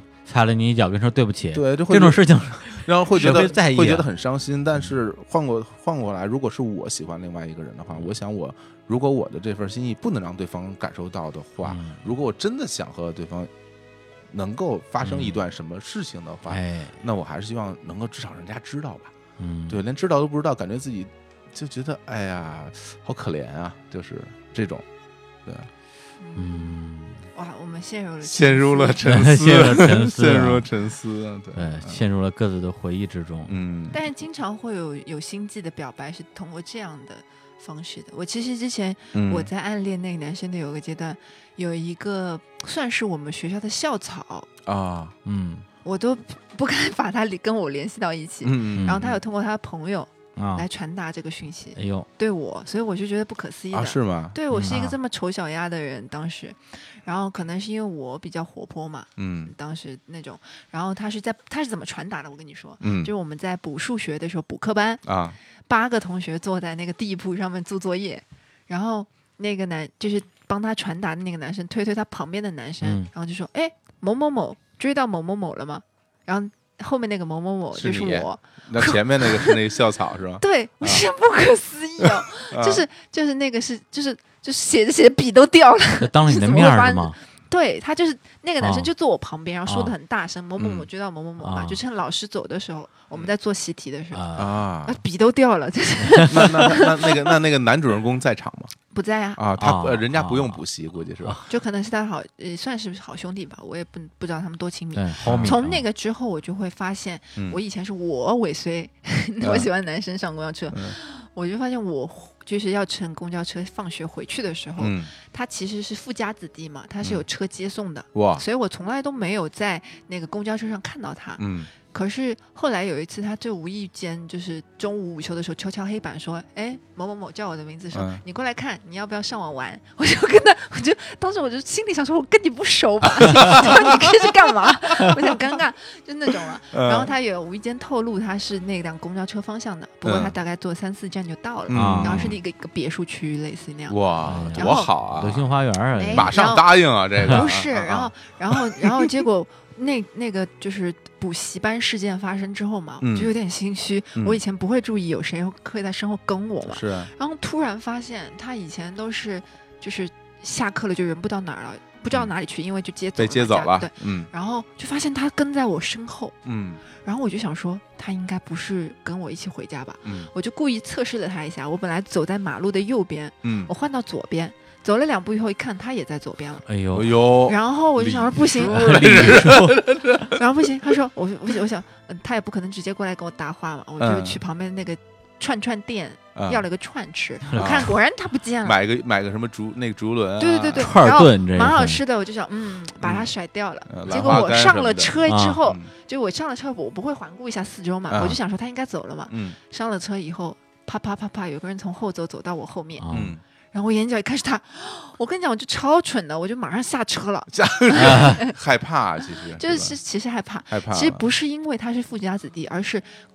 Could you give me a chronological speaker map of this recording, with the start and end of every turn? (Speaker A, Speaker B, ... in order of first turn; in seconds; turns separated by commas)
Speaker A: 0.3-4.1, Speaker B: 1.5-13.5, Speaker A: 11.6-12.0, Speaker B: 14.3-19.1, Speaker A: 15.0-15.4, Speaker A: 16.5-16.9, Speaker A: 19.4-19.8, Speaker B: 19.7-24.9, Speaker C: 26.2-26.5, Speaker A: 26.4-27.2, Speaker C: 27.3-29.0, Speaker B: 28.2-32.0, Speaker A: 29.0-30.7, Speaker A: 31.6-33.5, Speaker B: 33.5-34.0, Speaker C: 33.9-44.5, Speaker B: 39.1-39.5, Speaker B: 44.6-45.1, Speaker A: 45.2-45.7, Speaker C: 45.8-65.0, Speaker B: 48.4-49.2, Speaker A: 48.7-49.0, Speaker A: 50.4-50.6, Speaker A: 51.8-52.1, Speaker B: 53.7-54.8, Speaker A: 54.5-55.0, Speaker B: 59.2-59.5, Speaker B: 62.8-63.1, Speaker B: 65.1-65.4, Speaker C: 65.7-79.6, Speaker A: 72.8-73.1, Speaker B: 77.7-81.0, Speaker C: 80.4-94.3, Speaker B: 82.0-82.8, Speaker A: 86.0-87.2, Speaker A: 88.6-88.9, Speaker A: 89.7-89.9, Speaker B: 90.6-90.9, Speaker A: 91.4-91.8, Speaker A: 94.1-94.6, Speaker B: 94.3-95.0, Speaker C: 94.8-97.3, Speaker B: 96.2-98.7, Speaker C: 98.9-99.4, Speaker B: 99.4-101.4, Speaker A: 99.6-100.6, Speaker C: 101.5-144.9, Speaker A: 105.0-105.8, Speaker B: 105.2-105.6, Speaker B: 109.4-109.7, Speaker B: 114.8-115.1, Speaker B: 118.1-118.4, Speaker B: 121.4-121.7, Speaker B: 127.9-128.2, Speaker B: 133.2-134.0, Speaker B: 136.7-137.1, Speaker B: 140.0-140.3, Speaker B: 141.7-142.4, Speaker A: 141.7-142.3, Speaker B: 143.9-145.5, Speaker A: 144.2-146.4, Speaker C: 146.0-166.4, Speaker B: 146.1-148.1, Speaker B: 153.0-153.3, Speaker B: 156.7-157.1, Speaker B: 163.2-164.3, Speaker B: 166.4-166.8, Speaker C: 166.9-176.7, Speaker B: 170.0-170.3, Speaker B: 173.4-173.7, Speaker A: 176.7-177.2, Speaker B: 176.9-180.3, Speaker C: 177.4-179.4, Speaker A: 178.6-179.8, Speaker C: 180.4-188.8, Speaker B: 184.0-184.4, Speaker B: 186.3-186.7, Speaker A: 187.5-187.8, Speaker B: 187.6-187.9, Speaker B: 188.6-190.9, Speaker C: 190.4-203.1, Speaker A: 190.8-192.0, Speaker B: 193.0-193.3, Speaker B: 193.9-195.9, Speaker A: 195.3-195.6, Speaker B: 198.1-198.4, Speaker B: 199.3-199.6, Speaker A: 203.0-203.3, Speaker B: 203.1-203.4, Speaker C: 203.7-208.6, Speaker B: 207.5-210.0, Speaker A: 208.0-208.4, Speaker C: 209.5-213.1, Speaker B: 210.7-211.2